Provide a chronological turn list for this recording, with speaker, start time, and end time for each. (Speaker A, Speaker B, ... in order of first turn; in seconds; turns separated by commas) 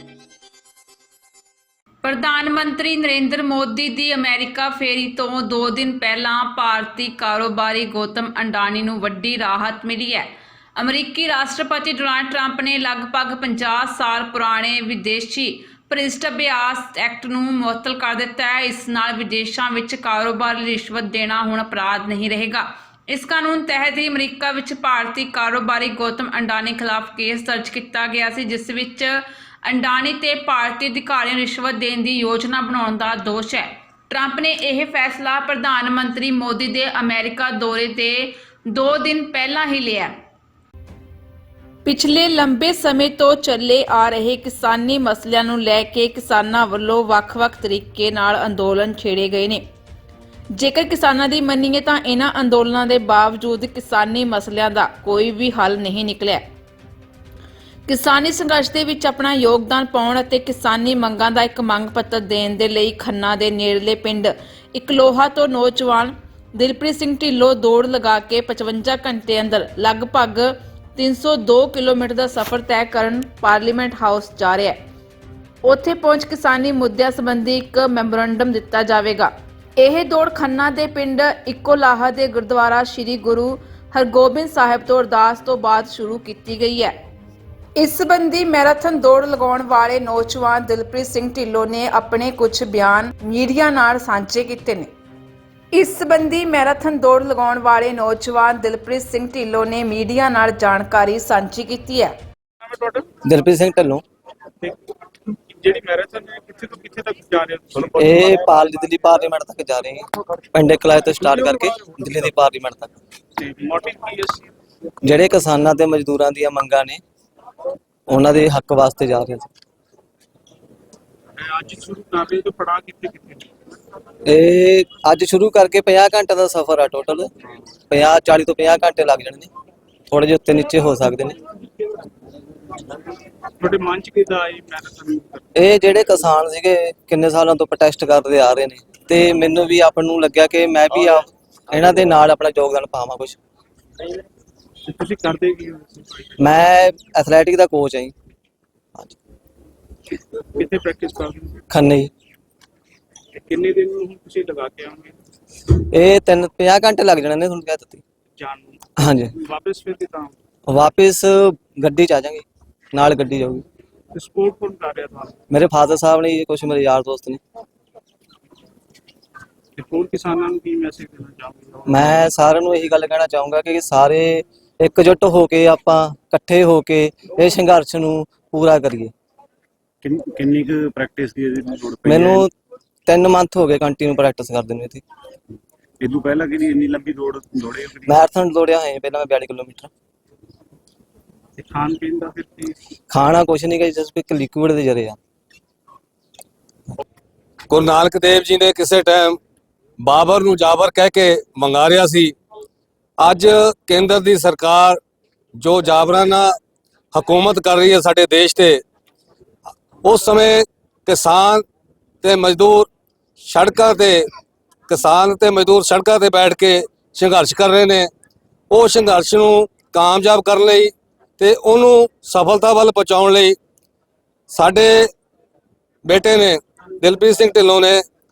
Speaker A: 2.0-40.1, Speaker A: 41.8-49.6, Speaker A: 50.6-56.4, Speaker A: 57.9-74.8, Speaker A: 75.6-86.9, Speaker A: 87.8-94.9, Speaker A: 95.7-102.1, Speaker B: 102.7-103.0, Speaker C: 103.3-104.0, Speaker B: 105.5-107.6, Speaker C: 107.8-112.9, Speaker B: 113.4-114.4, Speaker C: 115.0-117.0, Speaker C: 118.1-119.5, Speaker B: 121.5-123.4, Speaker C: 124.3-127.3, Speaker C: 127.9-129.5, Speaker C: 130.1-131.3, Speaker B: 133.6-135.4, Speaker C: 135.6-143.3, Speaker B: 145.0-146.1, Speaker C: 146.4-148.1, Speaker B: 150.6-151.4, Speaker C: 151.7-152.1, Speaker B: 153.4-155.1, Speaker C: 155.7-158.0, Speaker B: 158.4-158.7, Speaker C: 159.0-159.3, Speaker B: 159.6-160.3, Speaker C: 160.7-163.6, Speaker B: 164.2-165.3, Speaker C: 165.5-167.4, Speaker B: 169.8-171.7, Speaker C: 171.9-179.1, Speaker D: 180.1-182.1, Speaker C: 182.1-182.5, Speaker C: 183.1-185.0, Speaker D: 186.0-187.8, Speaker C: 188.1-189.9, Speaker B: 191.6-192.7, Speaker C: 193.1-195.2, Speaker E: 197.7-199.4, Speaker E: 200.0-202.3, Speaker E: 203.2-205.0, Speaker E: 205.6-206.5, Speaker E: 207.1-208.8, Speaker E: 210.0-211.6, Speaker E: 212.2-212.9, Speaker E: 213.4-214.2, Speaker E: 214.9-218.1, Speaker E: 218.7-223.6, Speaker E: 224.5-225.1, Speaker E: 226.1-228.0